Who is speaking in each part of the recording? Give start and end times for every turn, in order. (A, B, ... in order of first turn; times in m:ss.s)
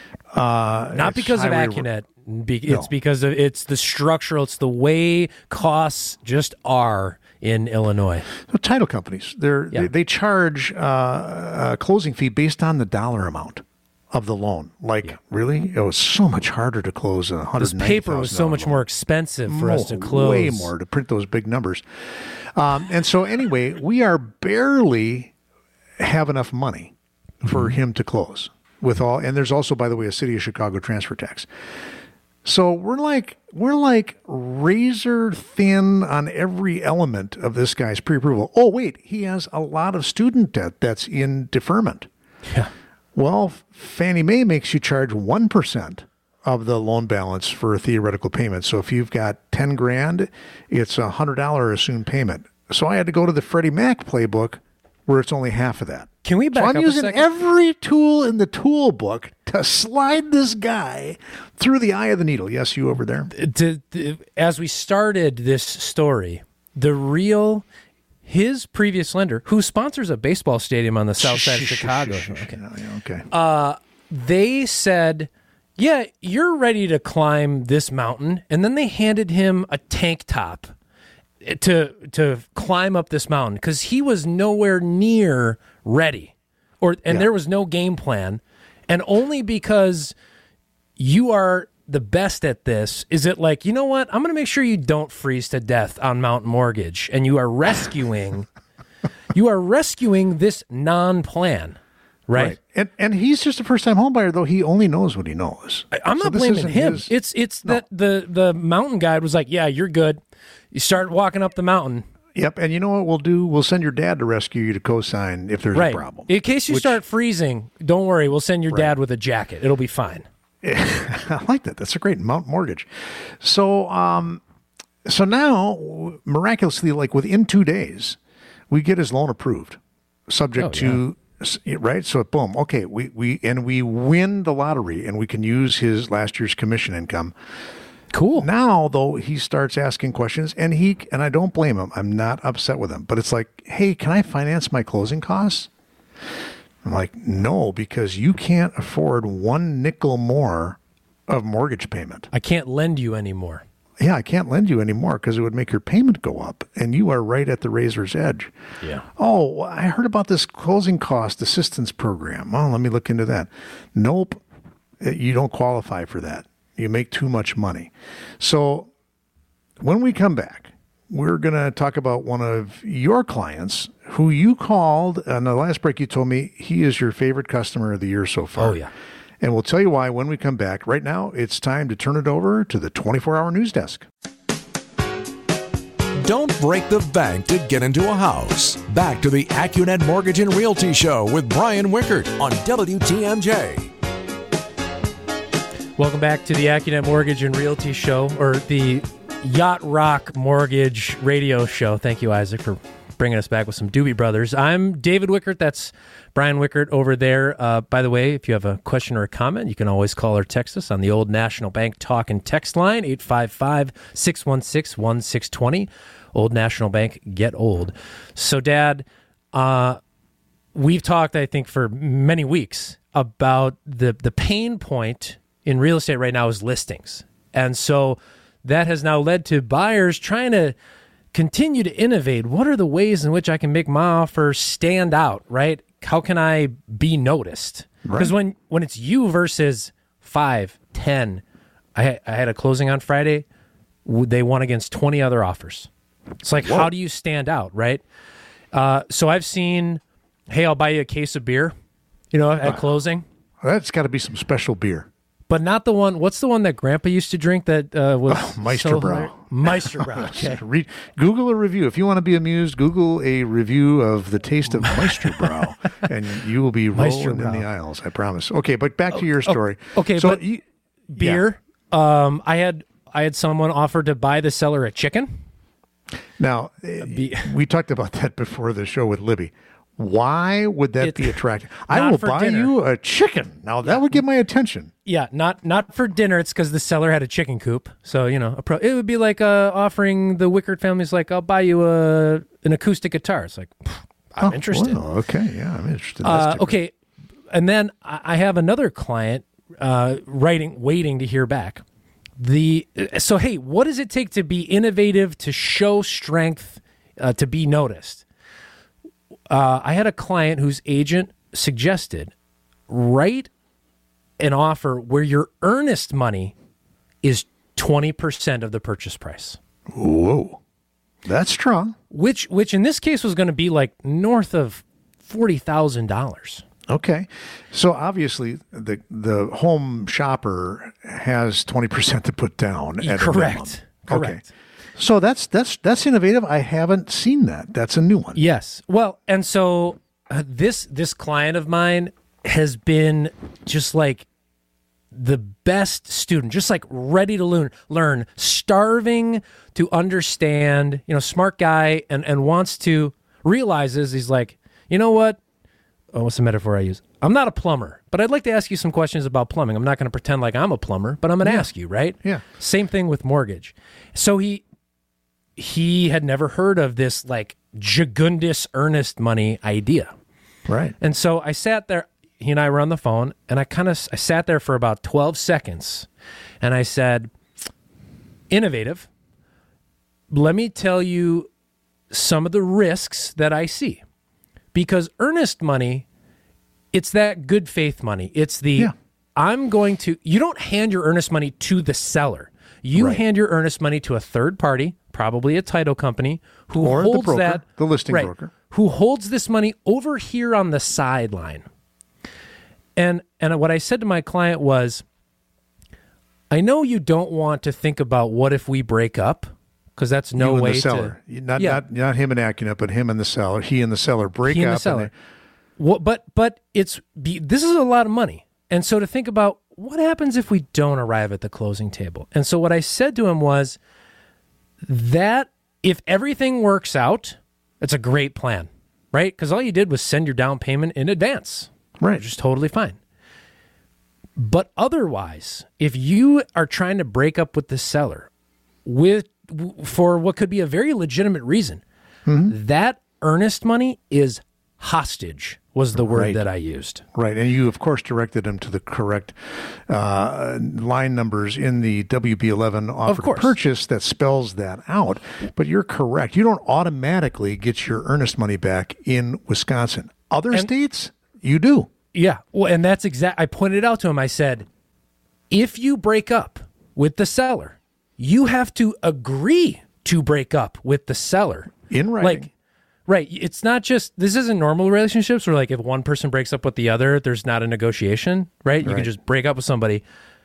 0:00.3-0:01.9 A
0:00.9-0:08.3 B
0:08.4-0:18.8 A
0:17.6-0:20.7 B
0:19.5-0:25.3 A
0:26.0-0:31.5 A
0:32.4-0:42.1 A
0:43.2-1:03.3 A
0:56.2-0:57.2 B
1:03.3-1:07.6 B
1:08.3-1:12.6 B
1:11.2-1:13.3 A
1:13.3-1:20.7 B
1:21.4-1:30.2 B
1:31.0-1:38.5 B
1:39.3-1:42.6 B
1:42.3-1:47.1 A
1:45.9-1:50.2 B
1:50.7-1:52.1 B
1:52.4-1:57.0 A
1:55.7-2:00.3 B
2:00.6-2:04.4 A
2:05.1-2:08.2 A
2:08.7-2:17.3 A
2:10.6-2:11.0 B
2:18.1-2:18.5 B
2:18.4-2:25.7 A
2:26.8-2:32.3 A
2:32.3-2:33.6 B
2:34.0-2:38.5 A
2:39.2-2:44.4 A
2:45.0-2:48.9 A
2:49.8-2:58.8 A
2:58.6-2:58.9 B
2:59.4-3:04.1 A
3:06.2-3:13.9 C
3:16.0-3:40.0 B
3:40.7-3:50.8 B
3:51.3-4:01.4 B
3:58.0-3:58.3 A
4:02.0-4:03.4 B
4:04.0-4:05.9 B
4:06.4-4:08.0 B
4:06.6-4:06.9 A
4:08.7-4:11.8 B
4:12.3-4:13.2 B
4:13.6-4:15.1 A
4:15.5-4:20.6 B
4:18.3-4:30.6 A
4:24.8-4:25.7 B
4:26.9-4:27.6 B
4:29.2-4:30.4 B
4:31.1-4:35.4 B
4:31.2-4:31.4 A
4:36.4-4:44.9 A
4:37.0-4:37.5 B
4:41.0-4:42.7 B
4:45.1-4:55.0 B
4:54.4-4:56.8 A
4:56.2-4:56.9 B
4:57.5-5:01.8 B
5:02.4-5:08.2 B
5:09.5-5:12.3 B
5:12.9-5:13.5 B
5:14.4-5:16.6 B
5:17.2-5:19.6 B
5:20.0-5:20.6 A
5:21.3-5:22.0 A
5:22.1-5:26.6 B
5:26.9-5:34.4 A
5:33.0-5:34.4 B
5:35.0-5:38.4 A
5:38.4-5:44.3 B
5:45.1-5:55.4 B
5:56.1-6:04.6 B
6:01.4-6:01.7 A
6:05.6-6:10.1 B
6:10.7-6:11.0 A
6:11.0-6:16.1 B
6:16.6-6:17.3 B
6:18.5-6:19.1 B
6:20.3-6:21.5 B
6:22.1-6:24.0 B
6:24.7-6:26.1 B
6:26.9-6:41.6 B
6:33.0-6:33.2 A
6:36.8-6:38.5 A
6:43.0-6:45.0 B
6:46.5-6:51.8 B
6:50.4-6:55.1 A
6:54.5-6:55.1 B
6:55.8-7:03.8 B
7:04.9-7:13.0 B
7:14.4-7:18.3 B
7:18.8-7:21.8 B
7:22.3-7:22.6 A
7:22.5-7:27.0 B
7:26.0-7:26.4 A
7:27.2-7:41.9 A
7:33.1-7:33.5 B
7:42.1-7:44.7 B
7:45.5-7:52.5 B
7:51.9-7:52.5 A
7:53.1-8:00.0 B
7:58.8-7:59.1 A